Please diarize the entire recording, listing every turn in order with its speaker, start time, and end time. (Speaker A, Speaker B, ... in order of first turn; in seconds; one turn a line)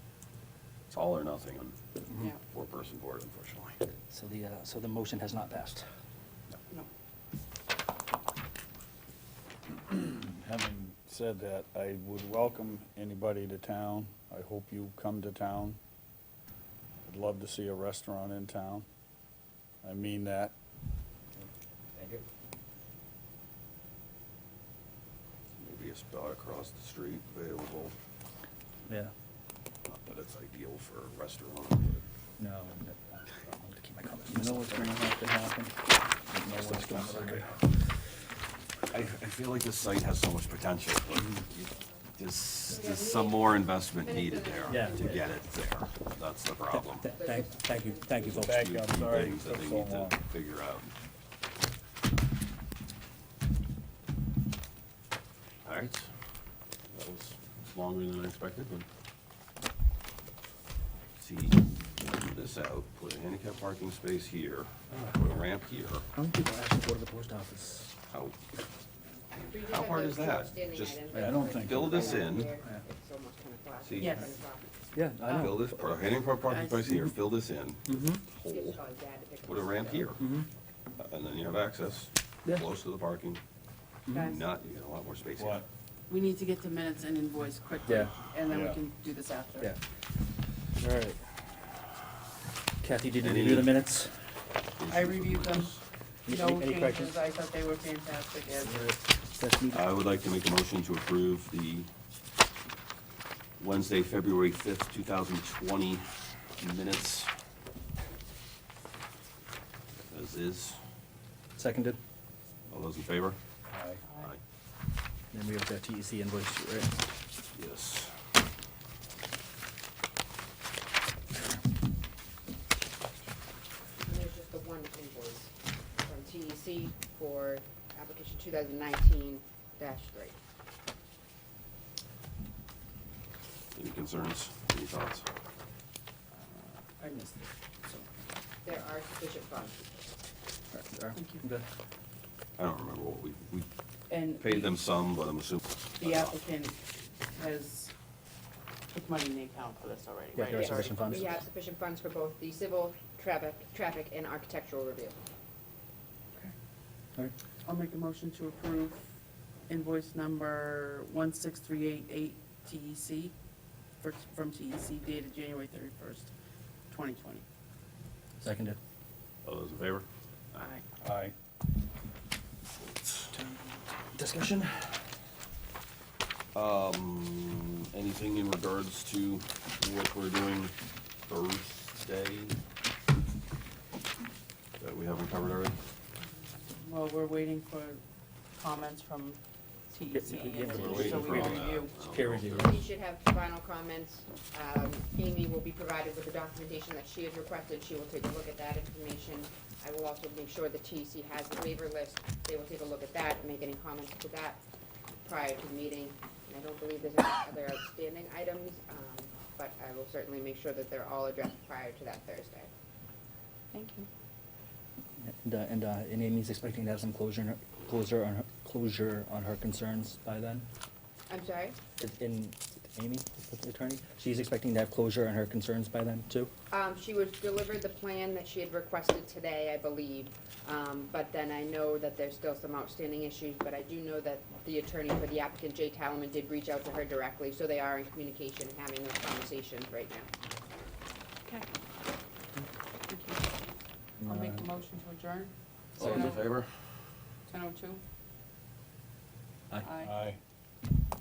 Speaker A: 0.9-1.8
Speaker B: 2.1-2.3
Speaker A: 2.4-3.8
Speaker B: 4.1-5.8
Speaker C: 9.9-15.8
Speaker C: 17.0-18.9
Speaker C: 19.8-20.5
Speaker A: 25.6-27.9
Speaker B: 28.9-29.1
Speaker A: 29.8-32.1
Speaker B: 32.4-35.6
Speaker C: 34.3-35.8
Speaker C: 36.3-37.5
Speaker B: 36.3-37.5
Speaker A: 38.9-47.1
Speaker D: 42.7-45.4
Speaker B: 44.7-45.0
Speaker B: 46.7-48.7
Speaker D: 47.1-48.5
Speaker C: 48.3-50.2
Speaker A: 48.5-50.9
Speaker A: 55.6-56.1
Speaker A: 56.9-58.8
Speaker A: 61.2-66.0
Speaker B: 66.2-67.9
Speaker A: 68.1-68.4
Speaker D: 69.4-74.9
Speaker A: 69.6-71.0
Speaker C: 71.1-72.3
Speaker A: 71.6-72.5
Speaker A: 73.8-74.3
Speaker B: 74.9-75.8
Speaker A: 75.3-78.8
Speaker E: 76.5-76.9
Speaker B: 77.9-78.2
Speaker D: 78.5-80.1
Speaker A: 79.4-80.2
Speaker B: 80.2-80.5
Speaker A: 81.0-83.4
Speaker B: 84.1-84.3
Speaker E: 84.1-84.5
Speaker A: 84.2-85.6
Speaker C: 85.4-85.7
Speaker E: 86.1-89.7
Speaker B: 87.8-88.2
Speaker C: 88.5-88.8
Speaker B: 90.8-91.2
Speaker B: 92.8-94.2
Speaker A: 93.2-93.8
Speaker A: 94.8-95.8
Speaker E: 94.9-95.7
Speaker B: 96.3-97.1
Speaker E: 96.3-98.9
Speaker B: 98.5-99.8
Speaker A: 99.7-101.9
Speaker A: 103.6-107.3
Speaker A: 110.1-110.8
Speaker B: 111.6-112.0
Speaker A: 112.7-113.4
Speaker C: 113.7-114.0
Speaker E: 114.0-114.3
Speaker B: 115.3-117.1
Speaker A: 117.5-118.1
Speaker D: 124.0-130.4
Speaker A: 133.7-135.3
Speaker E: 136.3-138.2
Speaker D: 138.6-139.8
Speaker B: 140.7-141.7
Speaker E: 141.1-141.4
Speaker A: 142.6-143.7
Speaker E: 144.1-144.7
Speaker A: 144.3-146.4
Speaker E: 146.0-146.8
Speaker E: 147.3-147.9
Speaker E: 148.9-151.3
Speaker B: 150.3-151.4
Speaker D: 150.5-155.2
Speaker E: 157.6-159.1
Speaker E: 159.7-163.3
Speaker E: 164.0-166.3
Speaker E: 166.9-167.4
Speaker B: 168.4-168.8
Speaker A: 169.4-170.1
Speaker E: 170.5-170.8
Speaker C: 171.0-171.3
Speaker A: 172.8-173.3
Speaker B: 173.3-175.1
Speaker A: 176.5-182.6
Speaker A: 184.8-185.8
Speaker E: 186.2-188.0
Speaker E: 188.5-191.9
Speaker B: 190.1-192.7
Speaker A: 190.7-192.8
Speaker D: 192.5-204.6
Speaker D: 205.2-212.7
Speaker E: 213.7-214.1
Speaker B: 215.2-220.7
Speaker D: 221.3-221.8
Speaker B: 222.0-226.5
Speaker D: 226.7-240.3
Speaker E: 243.1-243.5
Speaker B: 244.2-244.8
Speaker E: 244.2-246.5
Speaker A: 245.9-246.7
Speaker E: 247.4-248.0
Speaker E: 249.8-250.1
Speaker C: 250.0-250.4